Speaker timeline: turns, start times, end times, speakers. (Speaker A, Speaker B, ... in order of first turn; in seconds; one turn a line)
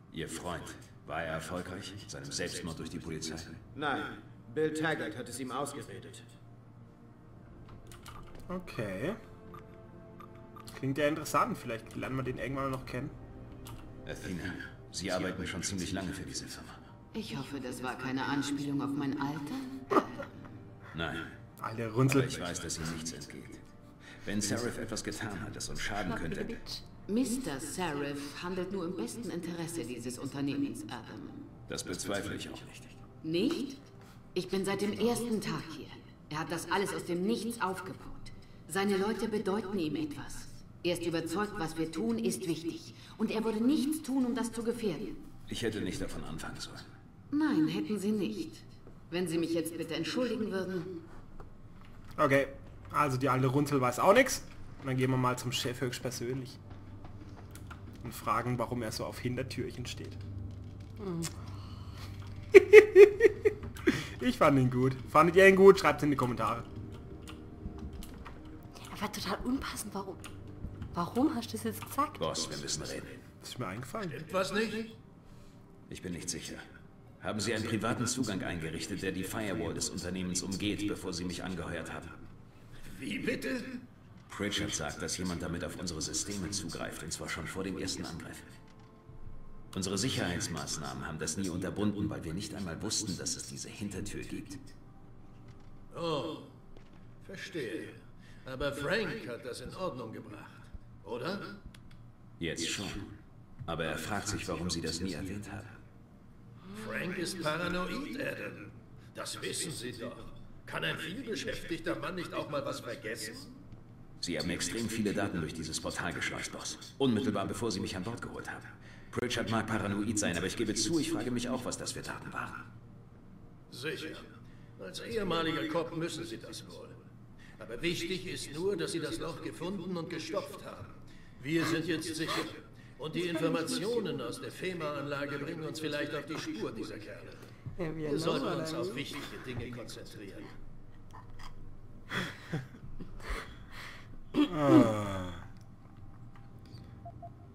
Speaker A: 0.1-3.6
Speaker B: 3.7-6.3
Speaker C: 8.5-9.2
Speaker C: 10.7-13.2
Speaker A: 14.1-16.8
Speaker D: 17.1-20.2
Speaker A: 20.9-21.3
Speaker C: 21.6-22.4
Speaker A: 22.1-23.6
Speaker A: 24.2-26.6
Speaker E: 26.1-26.8
Speaker D: 27.1-31.5
Speaker A: 31.7-32.8
Speaker D: 33.2-33.8
Speaker D: 34.3-45.2
Speaker A: 45.5-46.9
Speaker D: 47.3-51.0
Speaker C: 52.2-56.6
Speaker C: 58.0-60.2
Speaker E: 61.0-61.3
Speaker C: 62.5-66.7
Speaker E: 68.8-70.2
Speaker E: 70.9-72.2
Speaker A: 72.2-73.2
Speaker C: 73.4-74.2
Speaker F: 74.1-74.9
Speaker A: 75.9-76.7
Speaker A: 77.2-82.2
Speaker F: 82.8-83.8
Speaker A: 84.3-88.5
Speaker A: 89.7-94.6
Speaker F: 95.9-96.5
Speaker F: 97.2-101.5
Speaker A: 102.4-103.2
Speaker A: 103.7-105.7
Speaker F: 106.7-113.5
Speaker A: 114.2-122.6
Speaker F: 123.7-127.0
Speaker F: 127.6-137.4
Speaker E: 137.8-139.0
Speaker F: 138.0-140.5
Speaker C: 144.4-145.4